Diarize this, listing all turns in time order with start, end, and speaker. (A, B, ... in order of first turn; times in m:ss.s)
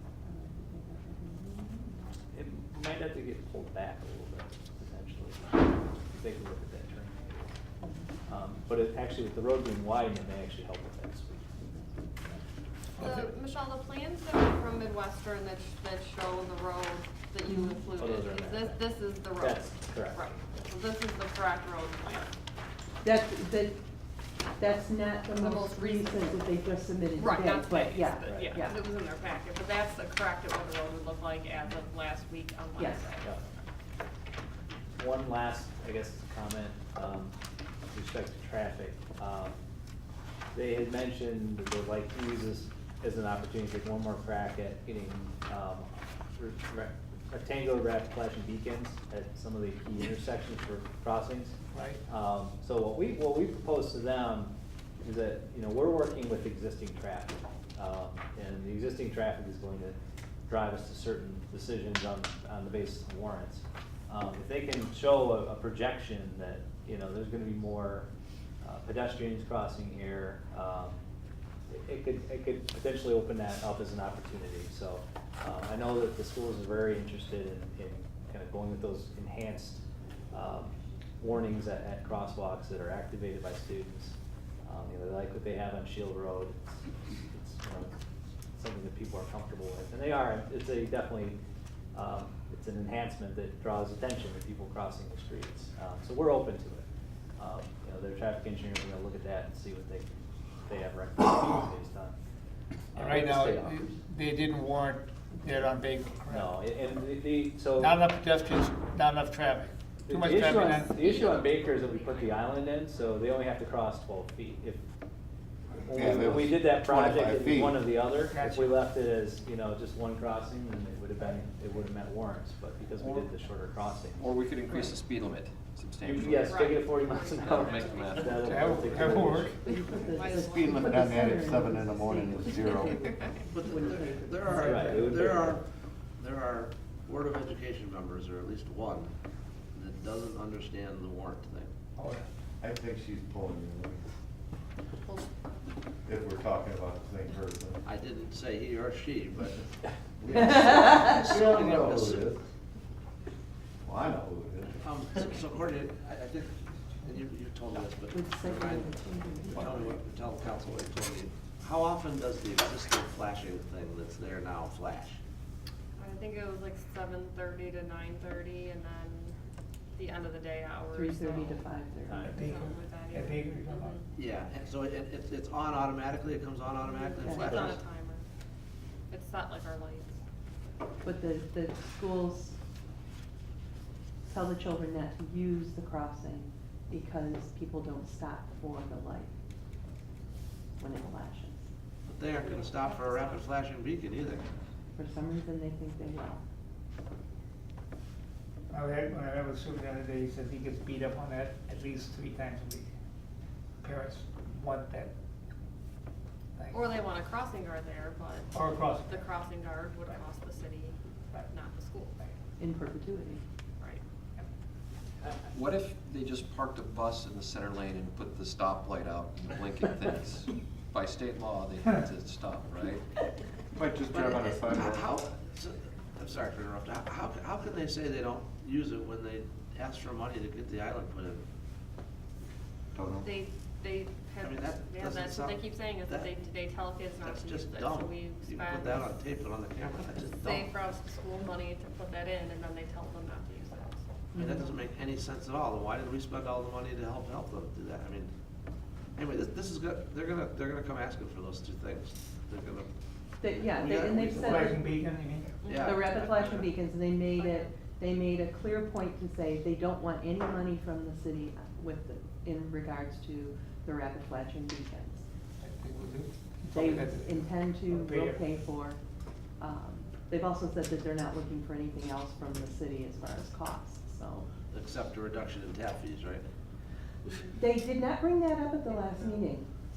0:00.2-0:02.1 A
0:02.3-0:07.5 B
0:07.8-0:08.2 A
0:08.3-0:11.6 B
0:13.0-0:13.3 C
0:13.0-0:22.3 D
0:17.5-0:17.8 A
0:18.0-0:20.7 B
0:23.0-0:23.8 A
0:24.6-0:28.8 A
0:25.4-0:26.5 D
0:27.2-0:33.2 D
0:28.2-0:28.5 B
0:32.8-0:33.1 A
0:35.0-0:37.4 B
0:37.9-0:39.6 B
0:40.5-1:08.1 B
0:51.7-0:52.0 C
1:08.6-1:11.0 B
1:11.7-1:27.9 B
1:28.6-1:31.4 B
1:31.9-1:36.9 B
1:37.4-1:42.2 B
1:42.9-1:43.9 B
1:43.0-1:46.5 C
1:46.3-1:48.0 B
1:47.8-1:51.1 C
1:50.1-1:54.8 B
1:50.9-1:52.5 D
1:55.9-2:04.3 B
1:55.9-1:57.9 E
1:58.1-1:58.8 C
2:03.0-2:03.3 F
2:04.2-2:06.6 F
2:06.0-2:09.7 B
2:06.3-2:08.5 D
2:07.4-2:09.0 F
2:08.4-2:09.7 C
2:09.6-2:15.3 A
2:09.7-2:11.4 D
2:10.4-2:13.2 E
2:12.6-2:13.3 D
2:13.5-2:15.6 G
2:14.6-2:15.6 B
2:16.2-2:19.1 G
2:19.7-2:21.7 G
2:22.0-2:22.2 C
2:22.6-2:24.0 E
2:26.0-2:27.8 E
2:27.8-2:29.6 G
2:30.2-2:32.4 E
2:30.3-2:32.3 G
2:30.4-2:31.3 A
2:33.8-2:34.8 E
2:34.8-2:45.2 G
2:38.1-2:40.0 A
2:46.0-2:49.4 D
2:50.0-2:51.6 D
2:50.9-2:52.4 A
2:52.1-2:52.4 B
2:52.2-2:54.0 D
2:52.3-2:54.0 C
2:54.2-2:57.8 G
2:56.8-2:58.2 D
2:57.2-2:57.7 A
2:59.1-3:00.2 D
3:01.0-3:02.5 A
3:04.2-3:09.4 A
3:10.8-3:11.7 A
3:12.1-3:14.5 G
3:12.3-3:13.5 D
3:15.0-3:16.4 A
3:18.7-3:22.9 C
3:23.8-3:25.1 C
3:26.6-3:26.9 C
3:26.7-3:31.0 D
3:28.5-3:29.3 C
3:31.5-3:32.2 D
3:32.6-3:33.4 A
3:35.2-3:43.0 F
3:43.7-3:45.1 E
3:44.1-3:51.4 G
3:52.9-3:53.3 E
3:53.2-3:59.1 D
3:54.4-3:56.4 G
3:57.2-4:00.7 G
4:00.4-4:04.0 D
4:04.4-4:04.8 A
4:04.4-4:08.3 G
4:09.2-4:12.9 G
4:13.4-4:15.0 A
4:13.5-4:14.8 G
4:14.5-4:15.7 C
4:15.6-4:16.3 D
4:15.7-4:16.7 G
4:15.7-4:25.2 A
4:17.4-4:17.7 D
4:25.6-4:28.5 C
4:26.7-4:29.0 A
4:29.6-4:34.5 A
4:34.7-4:36.4 G
4:37.2-4:37.5 G
4:37.6-4:39.7 A
4:38.8-4:39.6 D